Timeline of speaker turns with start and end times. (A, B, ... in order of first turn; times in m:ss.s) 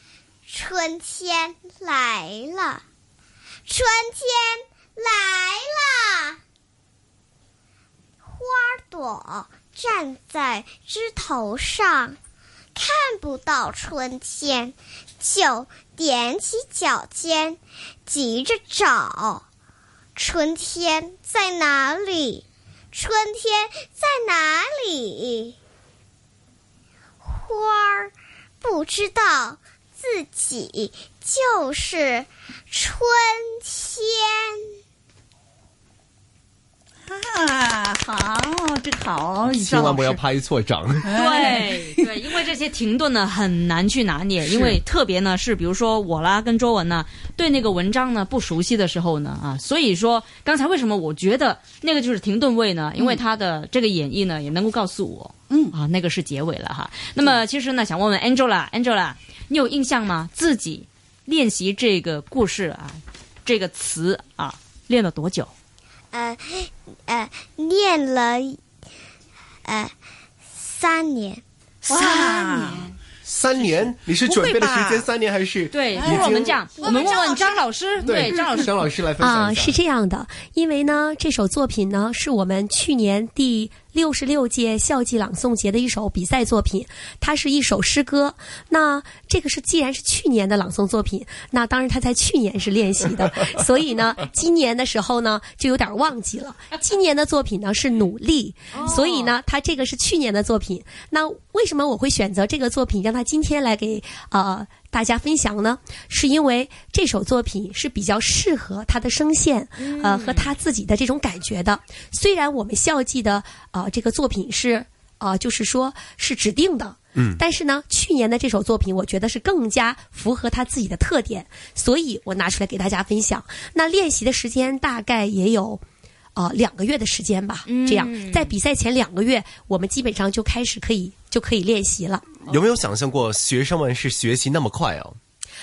0:00.5-0:02.8 A
0:03.7-0:06.4 A
0:08.2-0:12.2 A
0:12.7-0:19.4 A
0:20.2-0:25.6 A
0:27.2-0:34.6 A
0:37.1-0:40.2 B
0:39.5-0:41.1 C
0:41.0-0:42.1 B
0:41.1-1:05.5 D
0:55.5-0:55.8 B
1:06.1-1:08.6 A
1:09.6-1:09.9 A
1:10.6-1:11.4 A
1:11.8-1:13.0 B
1:11.9-1:12.9 D
1:13.2-1:16.6 C
1:13.5-1:15.1 B
1:15.7-1:18.7 D
1:15.9-1:18.5 B
1:18.0-1:19.8 C
1:19.2-2:05.8 E
1:38.7-1:39.3 D
1:49.8-1:50.5 D
2:06.4-2:12.2 E
2:07.7-2:08.5 D
2:12.5-2:15.2 C